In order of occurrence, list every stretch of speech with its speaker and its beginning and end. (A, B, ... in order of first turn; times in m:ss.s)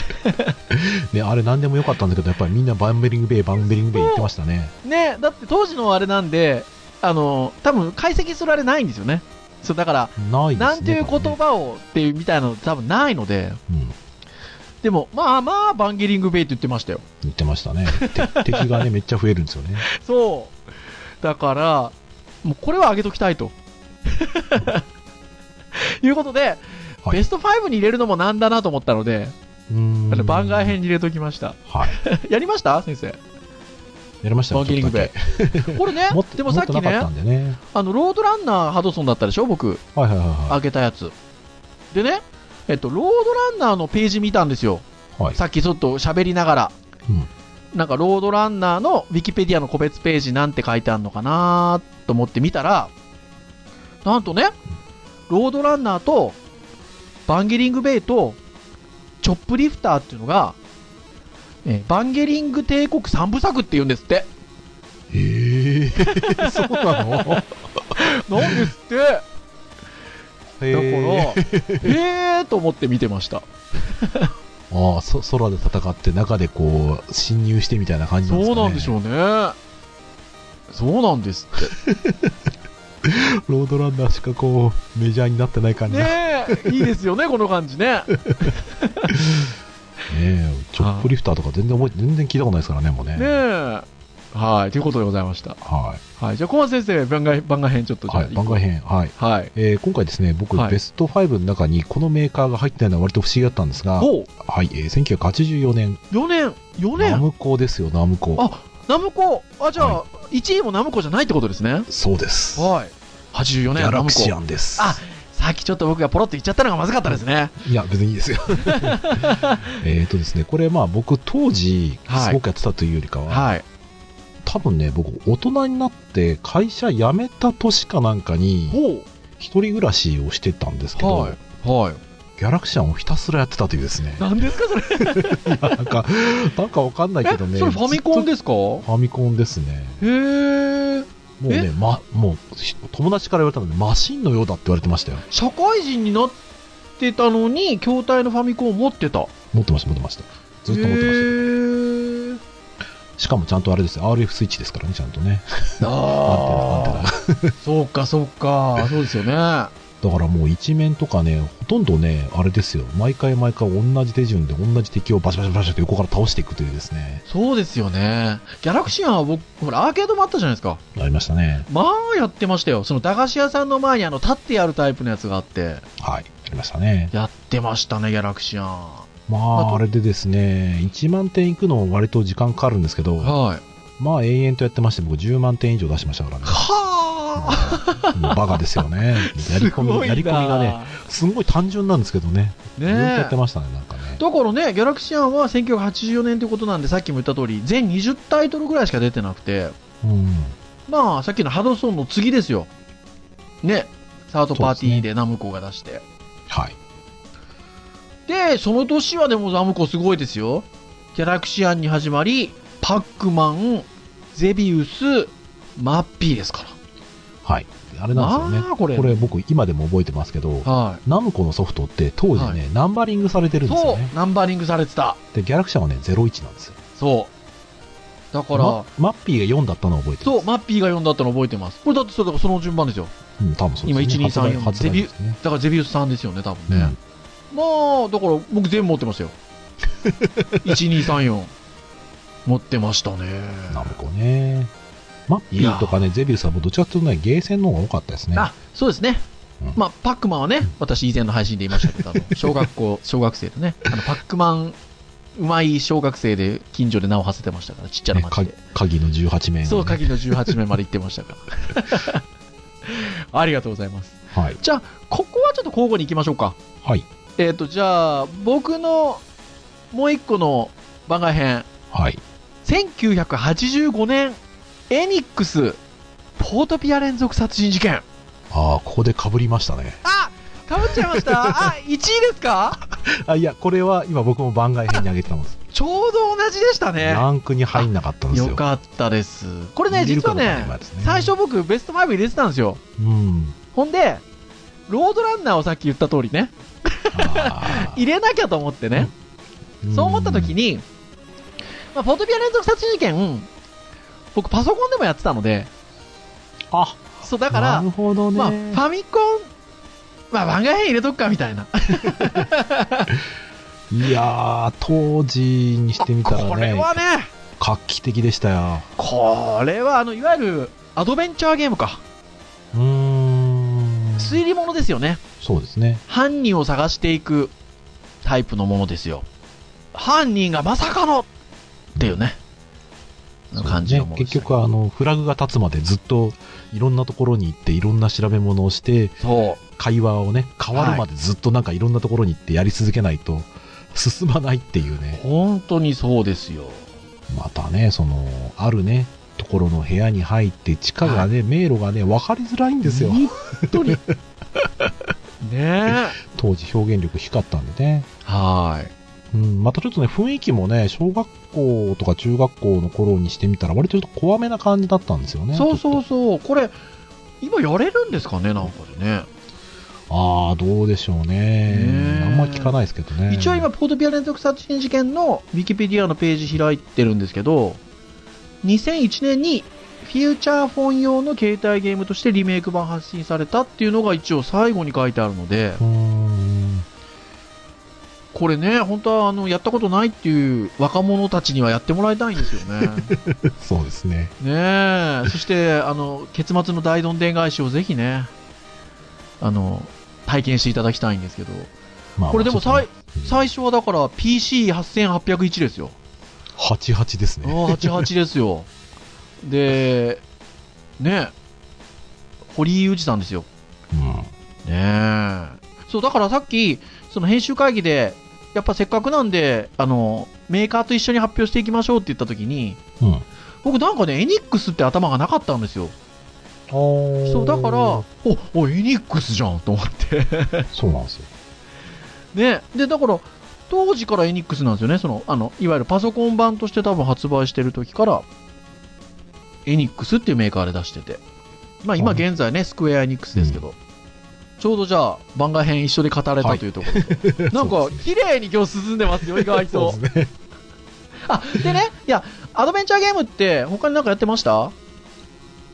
0:00.1-0:00.5 A
0:00.7-0:04.7 B
0:03.9-0:04.3 A
0:04.8-0:13.6 A
0:10.2-0:11.4 B
0:13.7-0:14.0 B
0:14.8-0:17.0 A
0:17.2-0:19.8 B
0:17.9-0:18.8 A
0:19.9-0:20.6 A
0:21.2-0:23.5 A
0:24.1-0:24.8 A
0:25.8-0:29.3 A
0:29.7-0:30.8 B
0:30.1-0:33.2 A
0:31.7-0:32.0 B
0:34.2-0:37.6 B
0:34.5-0:37.1 A
0:37.7-0:39.8 A
0:39.9-0:40.6 B
0:40.5-0:41.1 A
0:41.9-0:46.7 A
0:47.7-0:52.9 A
0:54.0-0:54.6 A
0:55.3-0:56.4 A
0:57.3-0:58.4 A
0:59.2-1:00.6 A
1:01.6-1:04.3 A
1:05.1-1:07.5 B
1:06.0-1:07.4 A
1:07.9-1:09.2 A
1:08.3-1:08.7 B
1:10.6-1:12.0 B
1:10.7-1:14.3 A
1:14.7-1:19.0 B
1:18.2-1:19.6 A
1:20.7-1:21.7 A
1:21.7-1:22.4 B
1:23.0-1:26.8 B
1:25.9-1:29.1 A
1:28.2-1:28.5 B
1:29.1-1:29.5 B
1:30.1-1:33.4 B
1:30.8-1:31.1 A
1:33.2-1:35.6 A
1:35.6-1:36.0 B
1:36.2-1:38.6 A
1:38.1-1:46.0 B
1:39.2-1:39.5 A
1:44.0-1:44.3 A
1:46.1-1:47.2 A
1:47.0-1:48.5 B
1:48.4-1:51.9 A
1:49.8-1:50.0 B
1:51.9-1:52.7 B
1:52.6-1:57.6 A
1:53.7-1:55.0 B
1:57.1-2:03.5 B
1:58.6-1:59.8 A
2:02.1-2:02.4 A
2:03.3-2:03.6 A
2:04.4-2:08.8 B
2:08.7-2:09.0 A
2:09.4-2:11.4 B
2:11.0-2:12.0 A
2:12.4-2:14.3 B
2:14.2-2:15.7 A
2:15.0-2:18.3 B
2:17.3-2:18.8 A
2:18.8-2:20.0 B
2:20.0-2:21.7 A
2:21.4-2:25.2 B
2:25.3-2:26.4 A
2:27.0-2:29.3 A
2:29.5-2:31.4 B
2:30.7-2:32.4 A
2:33.2-2:37.6 B
2:35.8-2:37.1 A
2:37.6-2:39.7 A
2:40.0-2:47.2 B
2:47.3-2:50.8 A
2:51.0-2:51.7 B
2:51.7-2:55.8 A
2:56.0-2:57.1 B
2:57.1-2:59.8 A
2:59.3-3:03.3 B
3:03.2-3:03.6 A
3:04.0-3:06.6 B
3:06.4-3:08.4 A
3:07.4-3:14.2 B
3:09.2-3:11.0 A
3:12.8-3:13.3 A
3:14.2-3:19.7 A
3:20.0-3:20.5 B
3:20.9-3:22.7 A
3:23.6-3:26.0 A
3:24.5-3:25.1 B
3:26.5-3:26.8 B
3:28.3-3:36.7 A
3:37.4-3:44.1 B
3:38.1-3:39.3 A
3:40.6-3:41.0 A
3:43.6-3:45.2 A
3:45.3-3:46.8 B
3:47.0-3:47.3 A
3:48.3-3:48.9 A
3:48.5-3:50.4 B
3:50.2-3:53.1 A
3:53.4-3:55.4 B
3:53.8-3:56.9 A
3:56.7-3:57.0 B
3:57.5-3:59.3 A
4:00.0-4:00.8 B
4:00.6-4:01.5 A
4:02.4-4:03.9 A
4:03.7-4:04.7 B
4:05.3-4:08.5 B
4:05.5-4:06.0 A
4:08.3-4:14.8 A
4:11.8-4:12.5 B
4:15.4-4:18.6 A
4:18.1-4:20.6 B
4:19.6-4:22.2 A
4:22.8-4:26.6 A
4:24.3-4:24.6 B
4:27.4-4:29.2 A
4:29.9-4:31.7 A
4:31.9-4:32.2 B
4:32.6-4:35.8 A
4:36.4-4:38.0 A
4:38.5-4:40.0 B
4:40.0-4:42.8 A
4:40.8-4:41.7 B
4:42.8-4:45.6 B
4:45.7-4:52.8 A
4:47.0-4:48.6 B
4:49.9-4:51.3 B
4:53.0-4:53.6 B
4:53.7-4:54.2 A
4:54.9-4:59.1 A
4:57.1-4:58.0 B
4:59.8-5:00.6 B
4:59.9-5:00.8 A
5:01.9-5:03.5 A
5:04.3-5:05.7 A
5:06.7-5:08.8 B
5:07.2-5:09.5 A
5:10.3-5:13.1 A
5:12.2-5:12.5 B
5:13.9-5:17.0 B
5:16.0-5:17.3 A
5:17.6-5:18.9 B
5:19.0-5:22.0 A
5:22.7-5:24.4 B
5:24.2-5:25.2 A
5:25.4-5:26.0 B
5:26.1-5:27.5 A
5:28.2-5:29.3 A
5:29.9-5:31.3 A
5:32.0-5:32.4 A
5:33.5-5:34.5 A
5:33.6-5:45.2 B
5:39.2-5:39.6 A
5:40.7-5:41.0 A
5:45.1-5:46.9 A
5:47.3-5:54.0 B
5:51.0-5:51.3 A
5:52.8-5:54.0 A
5:55.4-5:56.2 A
5:55.9-5:58.1 B
5:58.2-5:58.9 A
5:59.3-6:06.0 B
6:05.5-6:06.8 A
6:07.4-6:09.3 A
6:10.1-6:13.7 B
6:11.7-6:12.7 A
6:13.3-6:17.8 A
6:18.6-6:25.8 A
6:25.8-6:26.8 B
6:28.3-6:33.1 A
6:32.6-6:34.3 B
6:34.4-6:38.3 A
6:39.4-6:41.7 A
6:42.2-6:43.5 B
6:42.3-6:46.0 A
6:46.6-6:48.1 B
6:47.4-6:48.7 A
6:49.4-6:50.2 A
6:51.0-6:51.3 A
6:52.5-6:53.5 A
6:53.9-6:54.3 B
6:54.6-7:02.8 A
7:03.6-7:05.9 A
7:06.7-7:08.0 B
7:07.3-7:10.7 A
7:10.7-7:11.3 B
7:12.3-7:18.2 A
7:19.6-7:21.2 A
7:21.8-7:23.8 A
7:23.4-7:23.6 B
7:24.6-7:30.0 A
7:26.4-7:28.0 B
7:29.1-7:30.3 B
7:31.3-7:34.7 A